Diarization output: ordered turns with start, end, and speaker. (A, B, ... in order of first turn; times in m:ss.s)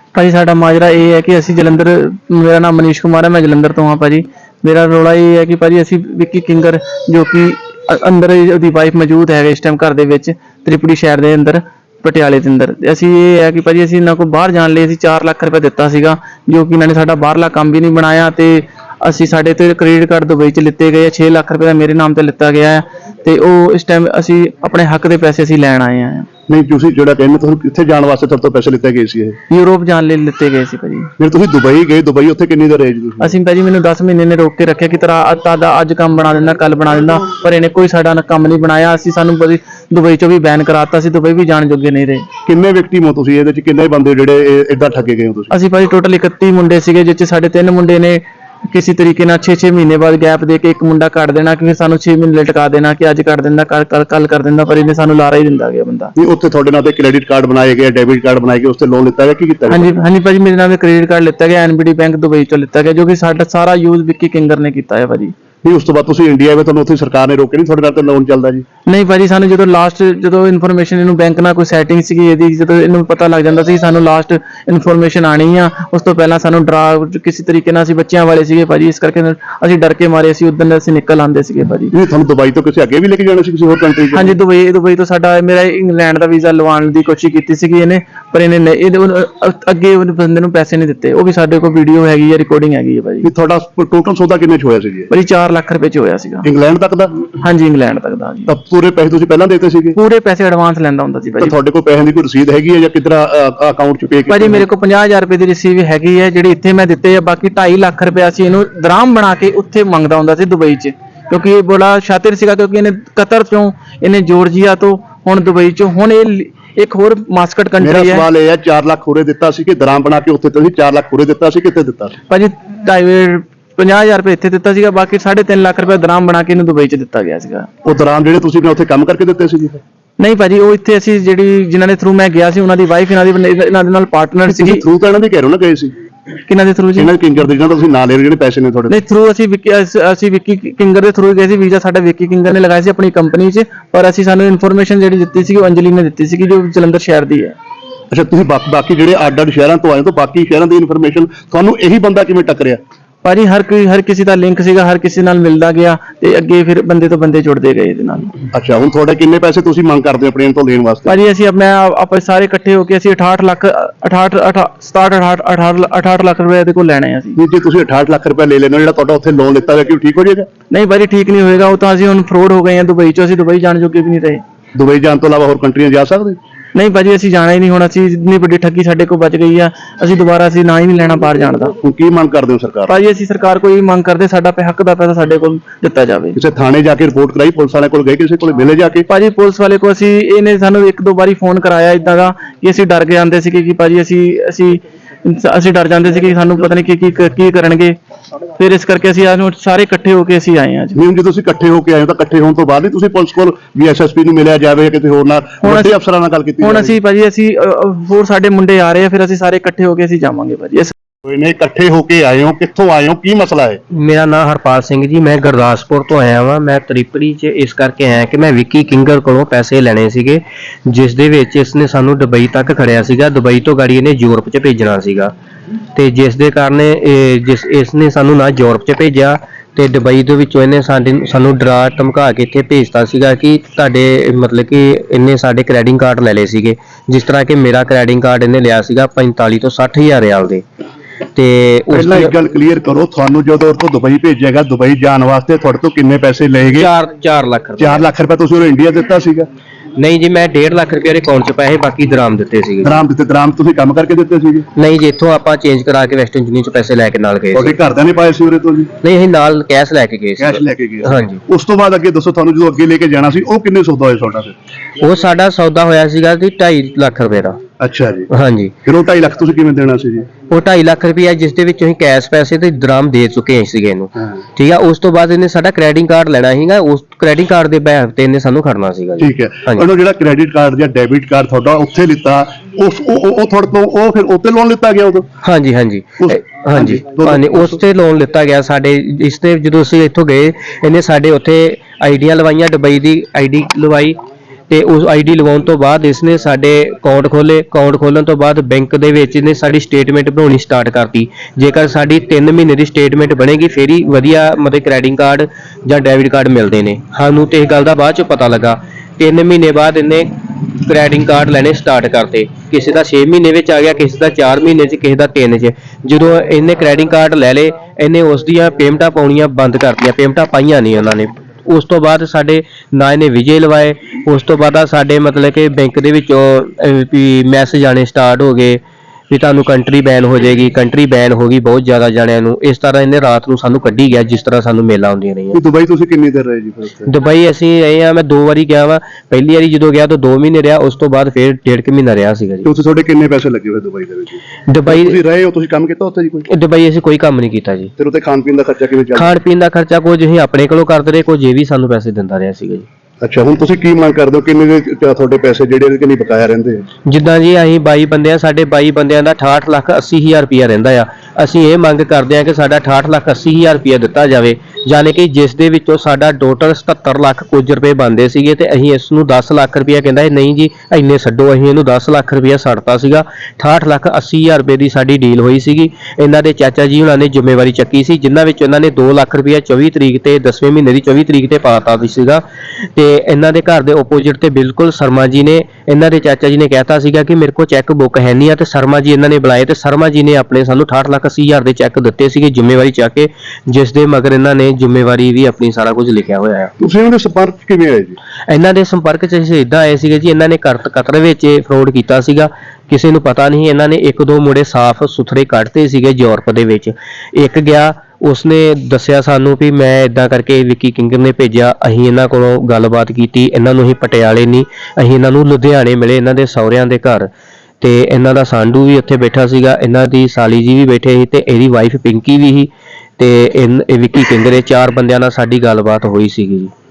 0:00.2-0:26.3 A
0:26.5-0:29.4 B
0:29.5-0:31.1 A
0:31.2-0:33.4 B
0:33.2-0:42.3 A
0:42.5-0:45.5 B
0:45.5-0:56.1 A
0:56.2-0:59.9 B
0:59.7-1:05.3 A
1:05.6-1:08.6 B
1:08.9-1:21.9 A
1:21.9-1:24.3 B
1:24.1-1:33.3 A
1:33.2-1:35.1 B
1:35.1-1:36.5 A
1:36.4-1:37.2 B
1:37.4-1:38.5 A
1:38.5-1:40.0 B
1:40.0-1:41.6 A
1:41.4-1:44.6 B
1:44.3-1:58.3 A
1:57.8-2:02.2 B
2:02.3-2:07.7 A
2:07.8-2:09.8 B
2:10.2-2:14.8 A
2:14.5-2:15.9 B
2:16.5-2:17.1 A
2:17.0-2:19.0 B
2:18.9-2:27.6 A
2:28.1-2:32.8 B
2:33.2-2:38.3 A
2:38.5-2:41.2 B
2:41.1-2:47.4 A
2:47.4-2:50.5 B
2:50.7-2:54.4 A
2:54.8-2:56.4 B
2:56.8-3:01.8 A
3:01.8-3:02.9 B
3:02.9-3:06.4 A
3:06.4-3:09.1 B
3:09.1-3:18.0 A
3:18.6-3:21.0 A
3:21.0-3:27.0 B
3:25.6-3:26.0 A
3:26.6-3:30.9 A
3:31.3-3:33.8 B
3:33.9-3:45.3 C
3:46.0-4:00.6 C
4:01.4-4:02.3 C
4:01.9-4:06.9 B
4:06.8-4:08.0 C
4:07.8-4:09.5 B
4:10.0-4:13.0 C
4:12.8-4:14.7 B
4:14.8-4:17.8 C
4:17.5-4:18.9 B
4:19.0-4:21.4 C
4:20.4-4:24.6 B
4:25.0-4:27.6 C
4:27.8-4:28.3 B
4:28.3-4:28.7 C
4:28.8-4:30.3 B
4:30.5-4:39.8 C
4:39.2-4:45.3 B
4:45.4-4:54.2 C
4:46.2-4:47.8 B
4:54.7-5:10.3 C
5:10.8-5:28.8 C
5:29.3-5:35.6 C
5:35.5-5:37.1 B
5:37.1-5:42.7 C
5:42.6-5:46.5 B
5:44.7-5:45.2 C
5:46.5-5:47.9 C
5:48.0-5:49.4 B
5:49.2-5:52.9 C
5:53.2-5:56.8 B
5:57.1-6:22.4 C
6:23.0-6:36.7 C
6:36.8-6:38.2 B
6:38.5-6:57.3 C
6:57.8-7:06.7 C